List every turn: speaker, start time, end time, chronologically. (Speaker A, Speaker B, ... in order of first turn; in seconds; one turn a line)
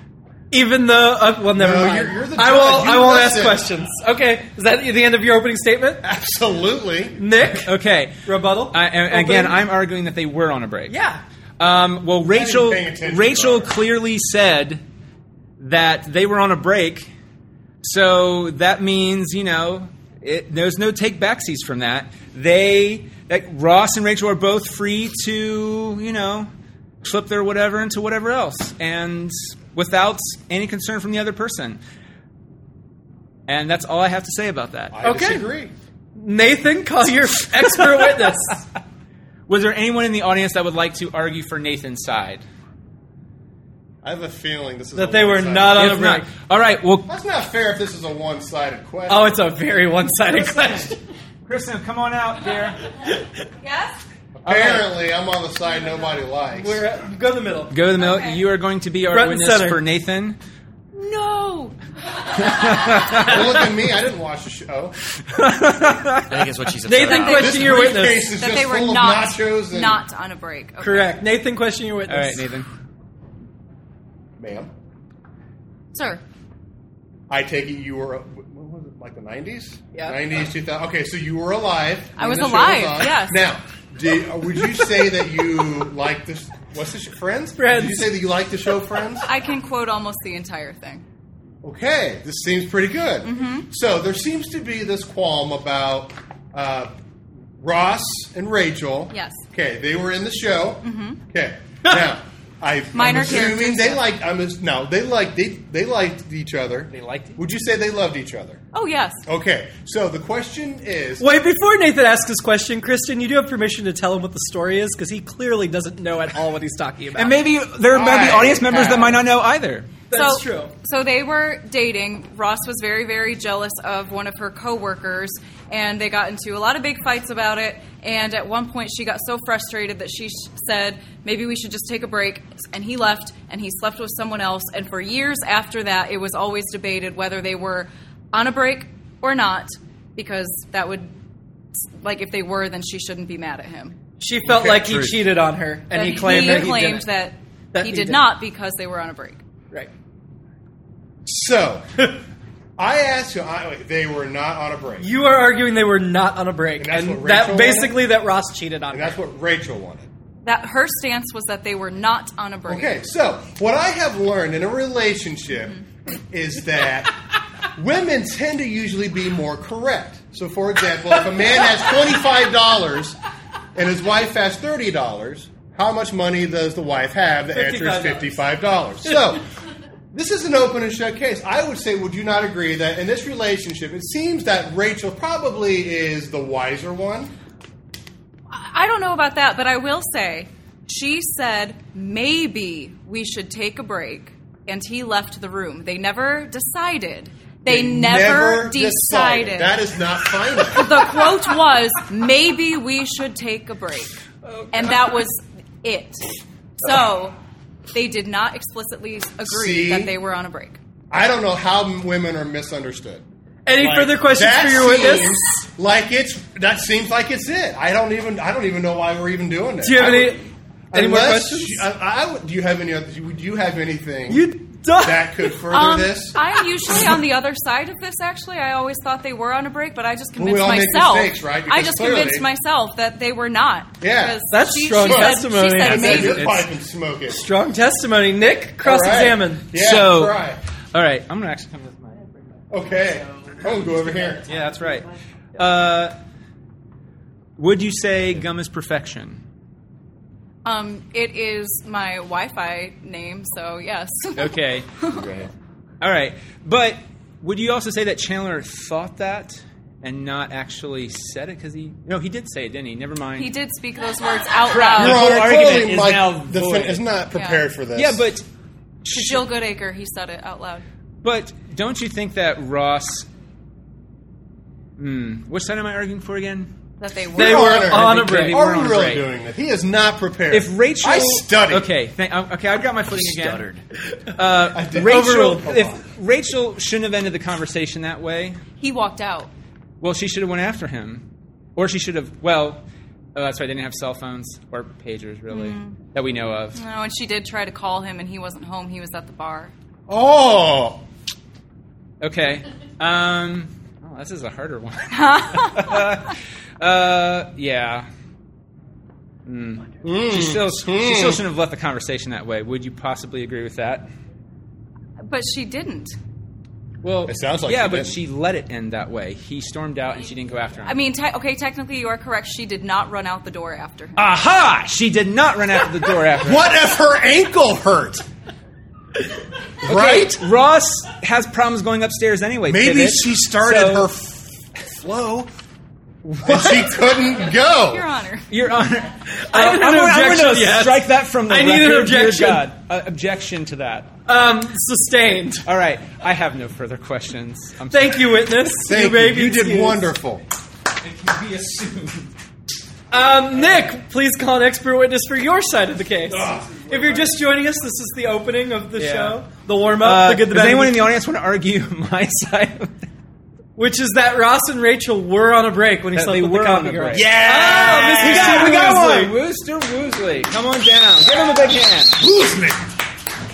Speaker A: 0.5-6.0
Speaker B: 1.5-3.6
Speaker B: 6.0-7.2
Speaker A: 7.2-9.6
Speaker C: 7.6-8.2
Speaker C: 8.7-10.9
Speaker A: 10.9-11.2
Speaker C: 11.6-14.8
Speaker B: 12.3-13.7
Speaker C: 15.6-17.1
Speaker C: 17.8-26.5
Speaker C: 27.0-31.8
Speaker C: 33.5-35.0
Speaker B: 34.9-35.7
Speaker A: 35.0-35.4
Speaker A: 36.1-38.6
Speaker C: 39.5-42.4
Speaker B: 44.0-46.0
Speaker A: 44.9-46.3
Speaker C: 45.7-47.0
Speaker B: 47.1-49.3
Speaker A: 49.1-51.0
Speaker C: 50.3-50.9
Speaker C: 51.5-52.8
Speaker D: 53.6-54.0
Speaker B: 54.4-56.8
Speaker C: 54.4-54.9
Speaker A: 56.5-57.8
Speaker C: 57.7-60.4
Speaker D: 58.0-58.4
Speaker A: 59.1-59.8
Speaker D: 60.9-61.8
Speaker C: 62.5-63.3
Speaker B: 63.1-64.9
Speaker C: 65.3-66.4
Speaker E: 66.3-67.8
Speaker A: 66.8-68.2
Speaker D: 67.1-71.2
Speaker B: 67.3-70.0
Speaker A: 70.8-72.4
Speaker C: 72.1-72.7
Speaker B: 74.4-74.7
Speaker D: 75.9-76.2
Speaker B: 77.3-89.3
Speaker D: 82.2-83.4
Speaker A: 87.6-88.1
Speaker D: 89.2-91.0
Speaker B: 91.6-96.9
Speaker D: 93.2-93.7
Speaker B: 97.6-108.6
Speaker D: 99.1-99.4
Speaker D: 100.8-101.2
Speaker D: 102.9-104.0
Speaker C: 106.9-107.4
Speaker D: 108.7-109.2
Speaker B: 109.2-111.2
Speaker A: 111.2-117.4
Speaker C: 117.1-119.9
Speaker B: 117.9-119.2
Speaker A: 120.1-120.7
Speaker D: 120.1-141.1
Speaker D: 141.7-143.9
Speaker A: 144.2-147.1
Speaker D: 145.9-149.4
Speaker A: 147.7-148.3
Speaker B: 151.2-152.2
Speaker B: 152.8-155.1
Speaker A: 155.0-159.1
Speaker B: 156.8-158.0
Speaker B: 158.9-160.1
Speaker D: 160.4-163.0
Speaker B: 162.7-167.2
Speaker B: 167.7-173.2
Speaker B: 173.7-179.4
Speaker A: 177.5-178.4
Speaker B: 180.1-187.3
Speaker D: 188.5-199.7
Speaker B: 197.7-201.1
Speaker D: 200.7-204.1
Speaker D: 204.7-206.2
Speaker D: 206.8-207.3
Speaker D: 207.9-210.8
Speaker B: 209.5-210.1
Speaker B: 211.1-213.2
Speaker A: 213.6-215.4
Speaker B: 213.8-226.4
Speaker A: 219.8-221.8
Speaker A: 224.3-225.6
Speaker D: 225.7-236.6
Speaker B: 230.3-232.5
Speaker B: 234.0-234.4
Speaker A: 234.5-236.4
Speaker B: 235.0-237.4
Speaker C: 235.8-236.6
Speaker A: 237.3-239.6
Speaker B: 238.8-240.6
Speaker C: 239.7-242.3
Speaker B: 242.7-244.4
Speaker C: 244.5-246.1
Speaker C: 247.6-249.4
Speaker D: 250.6-255.2
Speaker C: 254.4-254.9
Speaker E: 255.1-255.5
Speaker C: 256.0-263.5
Speaker D: 263.4-265.3
Speaker C: 264.7-267.0
Speaker B: 265.0-268.2
Speaker D: 267.3-267.6
Speaker C: 267.9-268.4
Speaker C: 269.0-269.4
Speaker D: 269.1-270.8
Speaker C: 271.2-273.3
Speaker C: 275.0-276.7
Speaker D: 277.0-277.9
Speaker B: 277.3-281.9
Speaker A: 277.4-278.6
Speaker C: 277.8-279.3
Speaker C: 280.5-283.7
Speaker E: 283.1-283.8
Speaker C: 284.3-288.6
Speaker B: 284.7-286.0
Speaker A: 285.0-285.6
Speaker D: 288.8-289.5
Speaker C: 290.0-292.8
Speaker C: 293.3-296.8
Speaker D: 295.5-296.0
Speaker D: 296.7-299.7
Speaker B: 300.1-301.0
Speaker C: 302.2-308.1
Speaker D: 305.1-306.0
Speaker C: 309.4-314.1
Speaker B: 310.0-311.4
Speaker D: 315.3-316.1
Speaker C: 317.0-320.9
Speaker B: 317.3-318.2
Speaker D: 320.8-324.2
Speaker C: 324.1-326.6
Speaker B: 326.4-328.2
Speaker C: 329.8-334.1
Speaker B: 329.8-330.4
Speaker B: 332.7-335.5
Speaker C: 336.3-336.8
Speaker B: 336.4-338.0
Speaker D: 337.7-338.5
Speaker C: 338.5-344.1
Speaker A: 339.5-342.7
Speaker A: 344.2-345.6
Speaker C: 345.6-348.3
Speaker A: 347.9-350.0
Speaker B: 348.9-350.4
Speaker C: 351.0-352.3
Speaker A: 353.1-361.1
Speaker B: 356.3-356.9
Speaker C: 359.0-359.4
Speaker C: 360.0-362.9
Speaker A: 363.8-369.3
Speaker C: 366.1-372.2
Speaker B: 367.1-368.8
Speaker B: 372.1-372.8